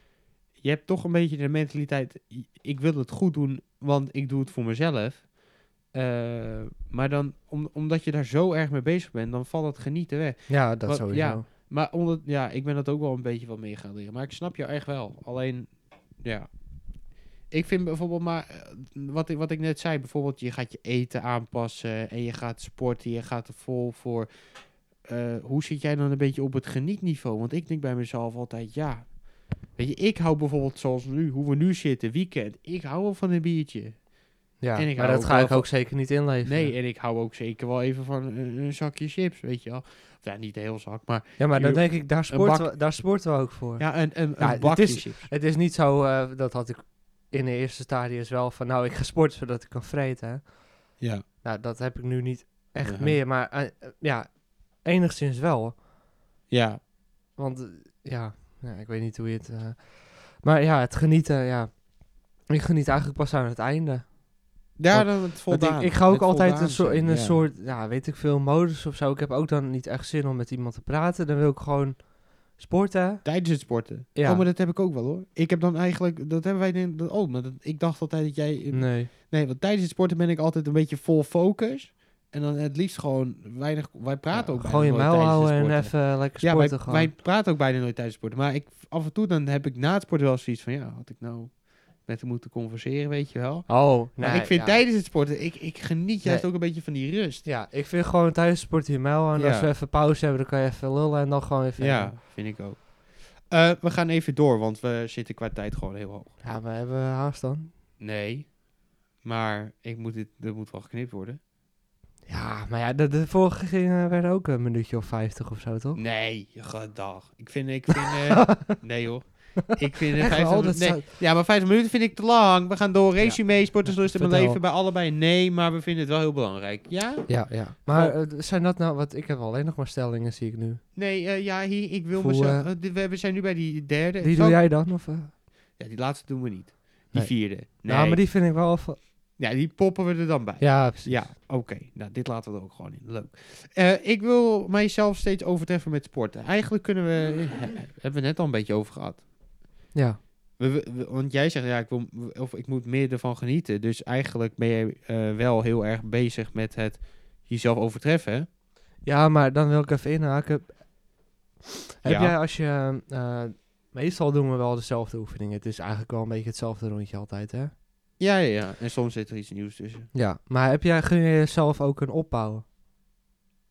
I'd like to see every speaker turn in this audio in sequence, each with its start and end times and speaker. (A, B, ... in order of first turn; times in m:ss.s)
0:00.6-0:05.3 A
0:05.9-0:16.5 A
0:10.5-0:11.4 B
0:17.5-0:24.3 A
0:25.1-0:29.1 A
0:29.8-0:34.0 A
0:34.6-0:36.7 B
0:34.7-0:35.9 A
0:36.4-0:42.8 A
0:41.4-0:50.6 B
0:43.8-0:45.3 A
0:51.4-0:55.8 B
0:52.8-0:53.2 A
0:56.5-0:56.8 A
0:57.4-1:04.2 B
1:04.8-1:07.4 A
1:04.9-1:13.3 B
1:13.2-1:37.4 A
1:14.2-1:14.4 B
1:18.7-1:19.1 B
1:24.3-1:27.1 B
1:33.7-1:34.8 B
1:37.4-1:42.2 B
1:39.4-1:39.7 A
1:41.8-1:46.4 A
1:46.4-1:47.7 B
1:48.0-1:48.6 A
1:49.2-1:51.4 A
1:52.3-1:56.0 B
1:56.0-2:08.2 A
1:58.4-1:58.8 B
2:00.2-2:01.1 B
2:03.2-2:04.6 B
2:07.3-2:10.8 B
2:11.0-2:14.6 A
2:12.2-2:12.7 B
2:14.2-2:15.3 B
2:15.8-2:18.2 A
2:17.1-2:19.0 B
2:19.4-2:29.2 A
2:20.6-2:21.2 B
2:29.9-2:30.2 B
2:30.6-2:38.5 A
2:39.0-2:40.8 B
2:42.0-2:47.7 B
2:42.0-2:42.3 A
2:48.2-2:50.1 A
2:50.1-2:52.6 B